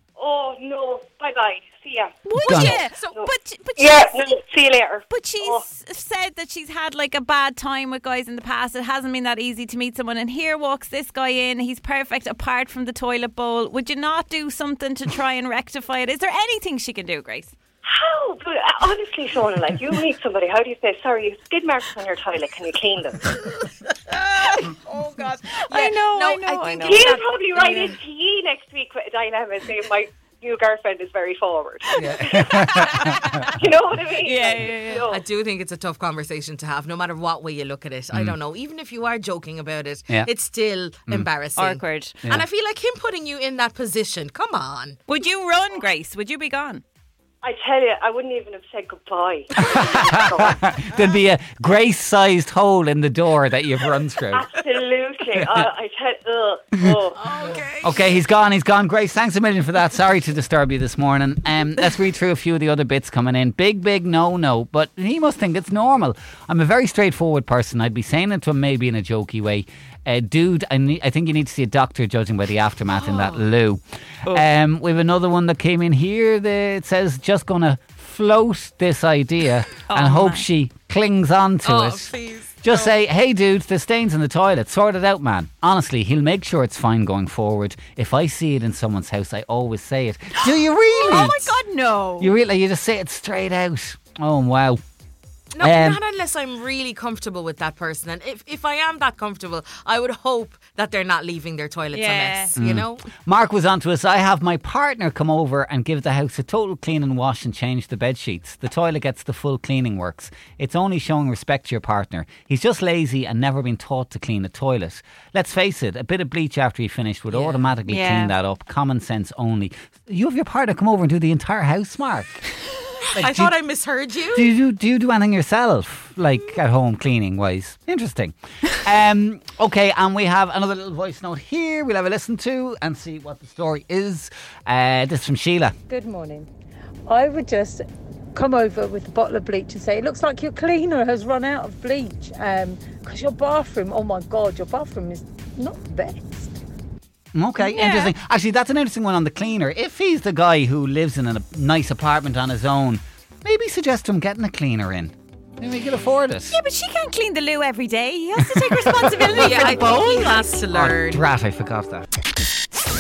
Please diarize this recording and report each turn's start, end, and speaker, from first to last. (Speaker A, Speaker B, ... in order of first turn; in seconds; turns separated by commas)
Speaker A: 0.2-2.6, Speaker B: 2.2-4.2, Speaker C: 2.4-2.8, Speaker D: 2.4-3.1, Speaker A: 3.1-5.6, Speaker B: 5.1-17.5, Speaker A: 17.8-23.4, Speaker D: 23.4-27.9, Speaker B: 25.5-27.8, Speaker A: 26.8-35.2, Speaker D: 32.0-32.3, Speaker C: 32.3-33.3, Speaker B: 34.2-35.0, Speaker D: 35.0-45.0, Speaker B: 41.6-42.2, Speaker B: 45.1-46.8, Speaker A: 47.4-50.6, Speaker C: 49.6-54.5, Speaker A: 54.3-57.2, Speaker D: 57.1-58.1, Speaker C: 57.8-91.6, Speaker D: 72.9-73.4, Speaker B: 79.9-80.4, Speaker D: 81.6-82.9, Speaker B: 90.9-92.3, Speaker C: 92.2-94.8, Speaker D: 95.5-103.1, Speaker C: 95.6-96.0, Speaker B: 101.9-102.5, Speaker C: 102.5-122.4, Speaker D: 117.3-117.7, Speaker B: 117.8-118.3, Speaker D: 123.0-124.5, Speaker C: 123.2-123.5, Speaker C: 124.3-135.7, Speaker E: 135.9-136.5, Speaker E: 137.1-146.6, Speaker C: 147.3-156.6, Speaker B: 147.6-148.1, Speaker B: 156.5-160.5, Speaker C: 158.4-162.1, Speaker D: 159.3-161.3